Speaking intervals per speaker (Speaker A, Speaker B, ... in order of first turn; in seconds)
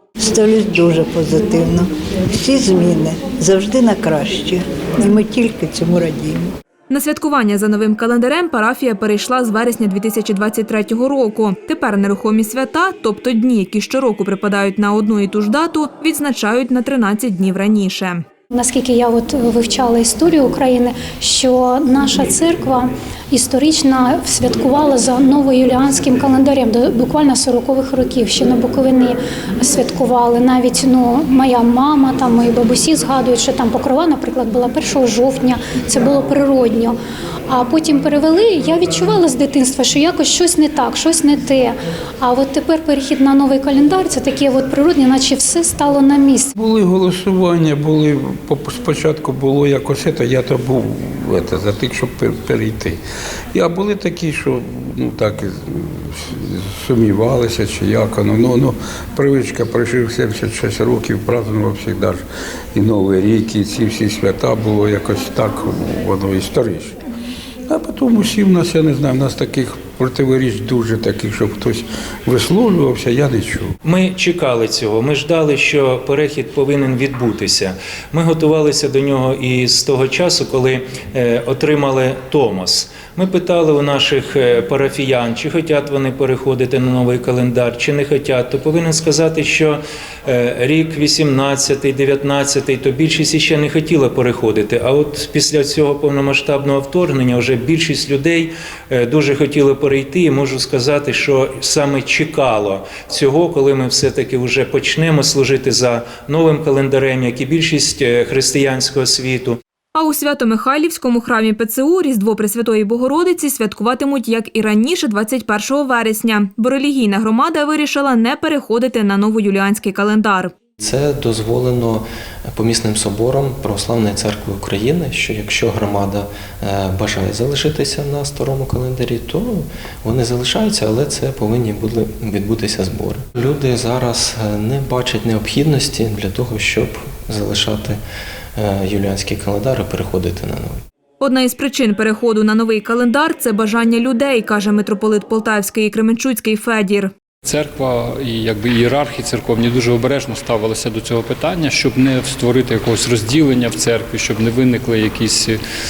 Speaker A: 0.2-6.5
Speaker B: 6.9-18.2, 110.0-120.5, 141.2-147.1
Speaker C: 18.5-37.0, 37.5-46.5
Speaker D: 46.6-53.0, 53.5-62.2, 62.7-67.0, 67.7-73.8
Speaker E: 73.8-109.6
Speaker F: 120.8-138.0, 138.6-140.8
Speaker G: 147.4-155.6